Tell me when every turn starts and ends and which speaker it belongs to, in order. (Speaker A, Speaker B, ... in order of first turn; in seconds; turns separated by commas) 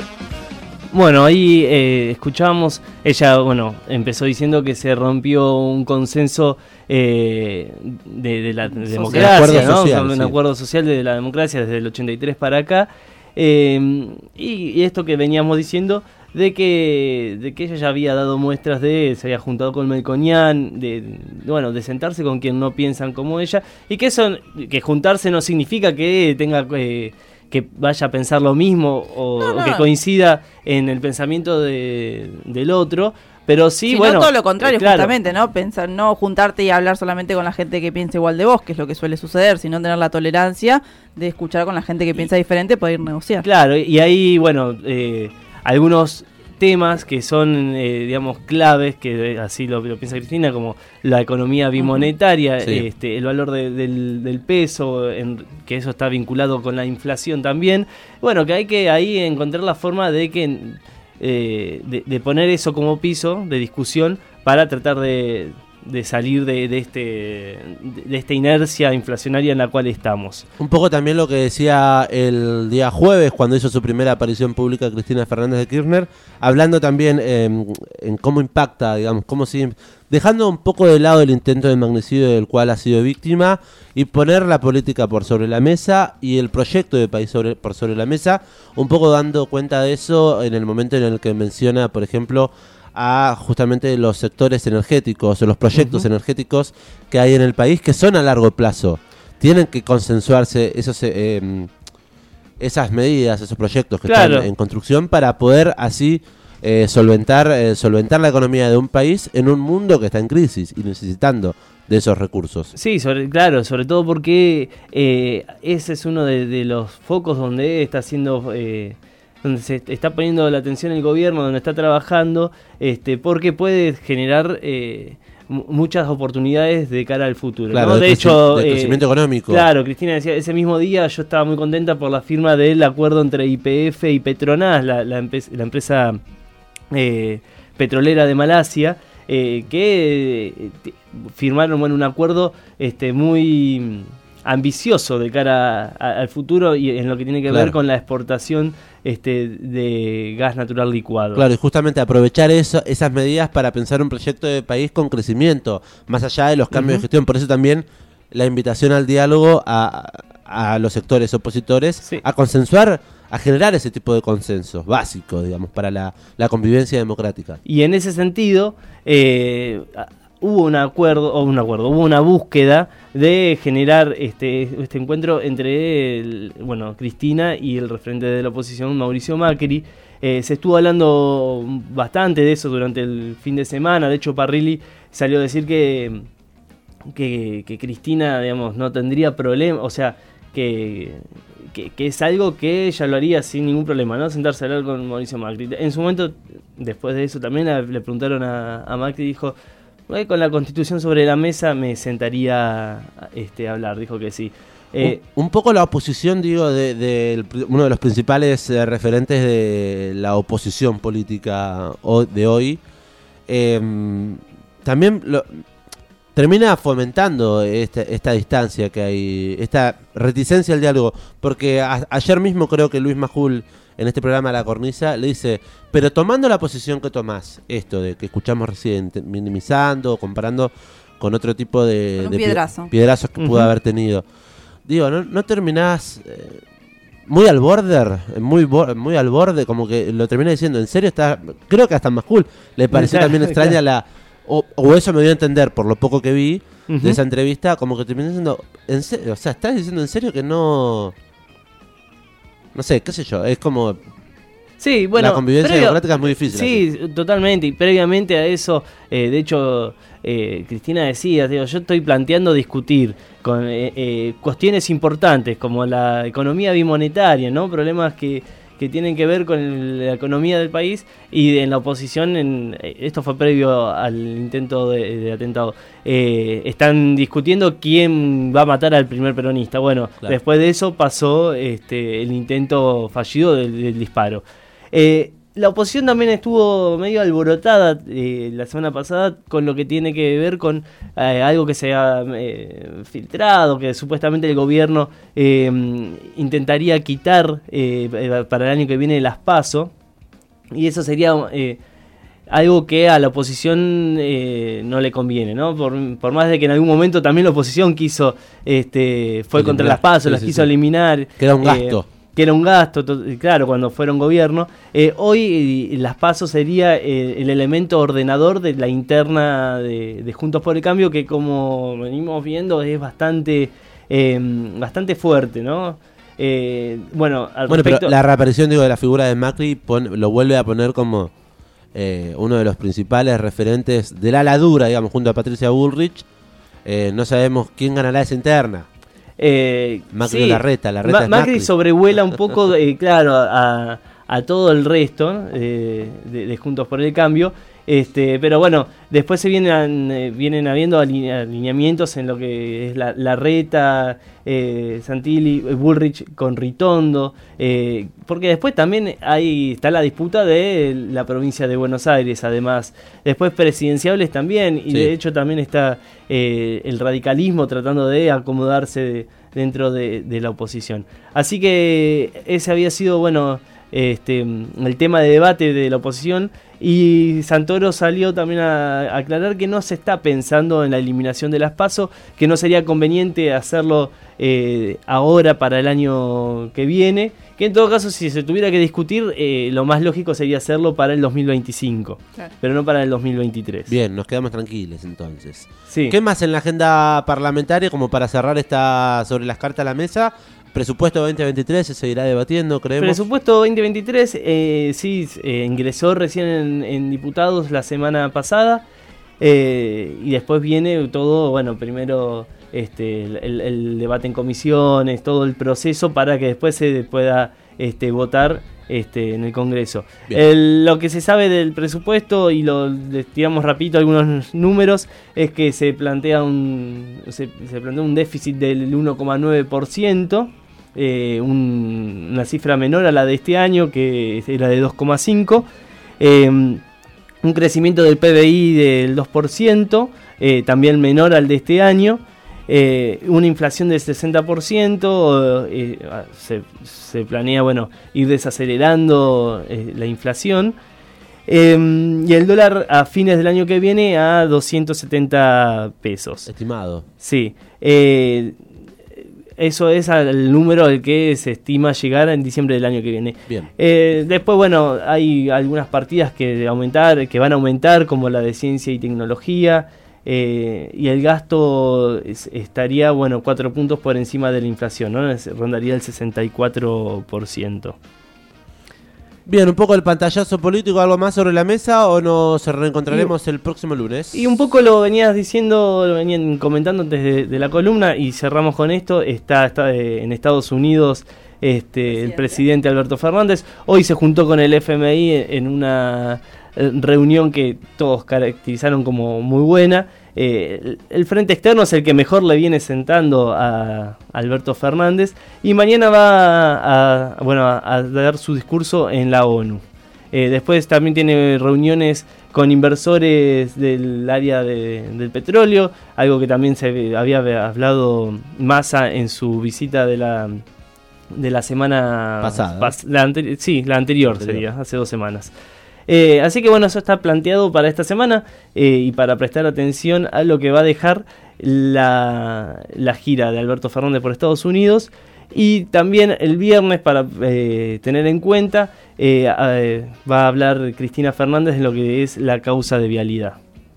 Speaker A: 0.9-35.2, Speaker B: 8.9-9.7, Speaker C: 9.1-10.4, Speaker B: 29.4-29.9, Speaker B: 33.9-43.5, Speaker A: 43.4-70.5, Speaker B: 51.8-52.1, Speaker C: 70.6-101.7, Speaker A: 95.8-96.1, Speaker C: 102.6-112.7, Speaker A: 104.1-104.5, Speaker A: 112.8-136.2, Speaker C: 127.7-129.7, Speaker A: 136.9-151.4, Speaker C: 147.5-147.8, Speaker C: 151.3-167.6, Speaker A: 156.7-157.1, Speaker A: 167.7-186.3, Speaker A: 187.1-199.6, Speaker A: 200.1-205.2, Speaker C: 205.0-212.8, Speaker C: 213.5-215.6, Speaker C: 216.3-234.2, Speaker B: 232.2-232.9, Speaker A: 233.4-233.7, Speaker C: 234.9-236.6, Speaker C: 237.3-251.1, Speaker A: 242.9-243.8, Speaker A: 246.9-247.2, Speaker C: 252.8-254.0, Speaker A: 254.8-299.9, Speaker C: 255.2-256.8, Speaker A: 300.7-301.8, Speaker A: 302.5-328.1, Speaker C: 309.6-310.7, Speaker C: 311.4-312.1, Speaker C: 327.7-331.3, Speaker C: 331.9-336.3, Speaker C: 336.9-338.9, Speaker A: 339.4-393.9, Speaker C: 340.1-341.7, Speaker C: 393.9-403.2, Speaker A: 395.9-396.2, Speaker A: 403.0-408.8, Speaker A: 409.4-435.7, Speaker A: 436.2-436.8, Speaker A: 437.4-450.8, Speaker A: 451.5-456.5, Speaker C: 456.5-457.1, Speaker A: 457.2-458.6, Speaker A: 459.6-478.0, Speaker C: 479.5-484.4, Speaker A: 484.3-520.6, Speaker B: 492.1-492.6, Speaker A: 521.3-525.5, Speaker C: 522.4-523.0, Speaker C: 524.2-524.6, Speaker A: 526.1-543.6